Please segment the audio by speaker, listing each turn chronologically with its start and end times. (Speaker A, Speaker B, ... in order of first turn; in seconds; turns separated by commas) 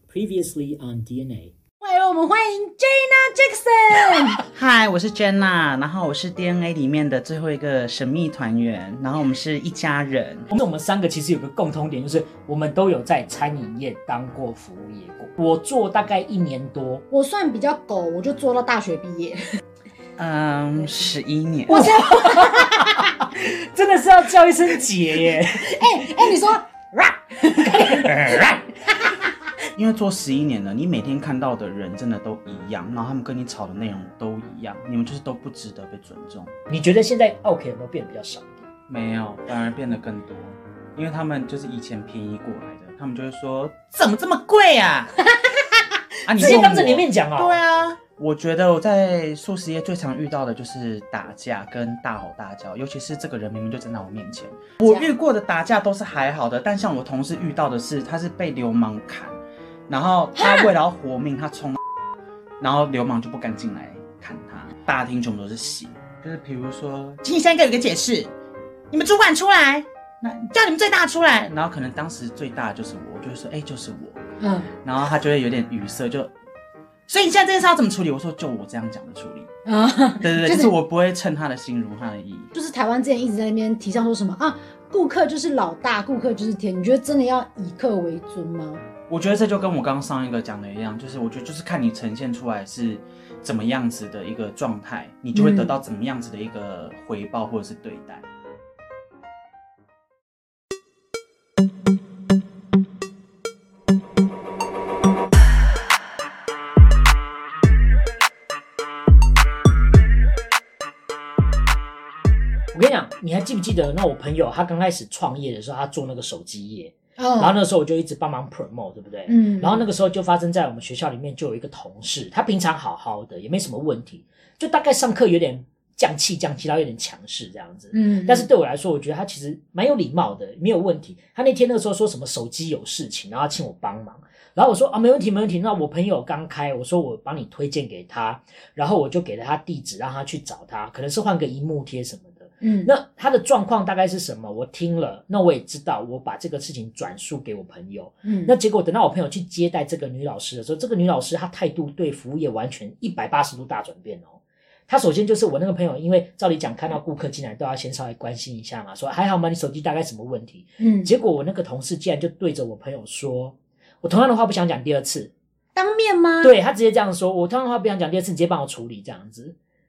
Speaker A: 0.1-1.5, Speaker B: 1.8-4.4, Speaker C: 4.5-10.5, Speaker A: 10.5-17.0, Speaker B: 17.1-19.4, Speaker C: 20.2-22.0, Speaker B: 21.7-23.2, Speaker A: 21.7-26.4, Speaker B: 25.5-29.3, Speaker C: 28.0-28.6, Speaker C: 29.8-36.5, Speaker A: 36.7-38.6, Speaker C: 38.9-45.1, Speaker B: 45.4-45.8, Speaker C: 46.3-59.4, Speaker B: 46.4-46.8, Speaker A: 46.4-47.6, Speaker C: 59.9-61.8, Speaker B: 60.4-60.7, Speaker C: 62.6-68.3, Speaker C: 68.9-74.2, Speaker B: 74.4-74.7, Speaker C: 74.8-76.3, Speaker C: 77.1-79.5, Speaker B: 79.7-80.7, Speaker C: 80.2-82.5, Speaker B: 82.5-88.8, Speaker C: 89.1-98.2, Speaker B: 95.3-95.7, Speaker A: 112.7-154.3, Speaker B: 117.2-117.6, Speaker B: 119.3-119.8, Speaker B: 127.9-128.5, Speaker B: 142.6-142.9, Speaker B: 148.2-148.5, Speaker A: 154.9-165.3, Speaker B: 160.8-161.1, Speaker B: 165.8-166.5, Speaker A: 166.4-169.6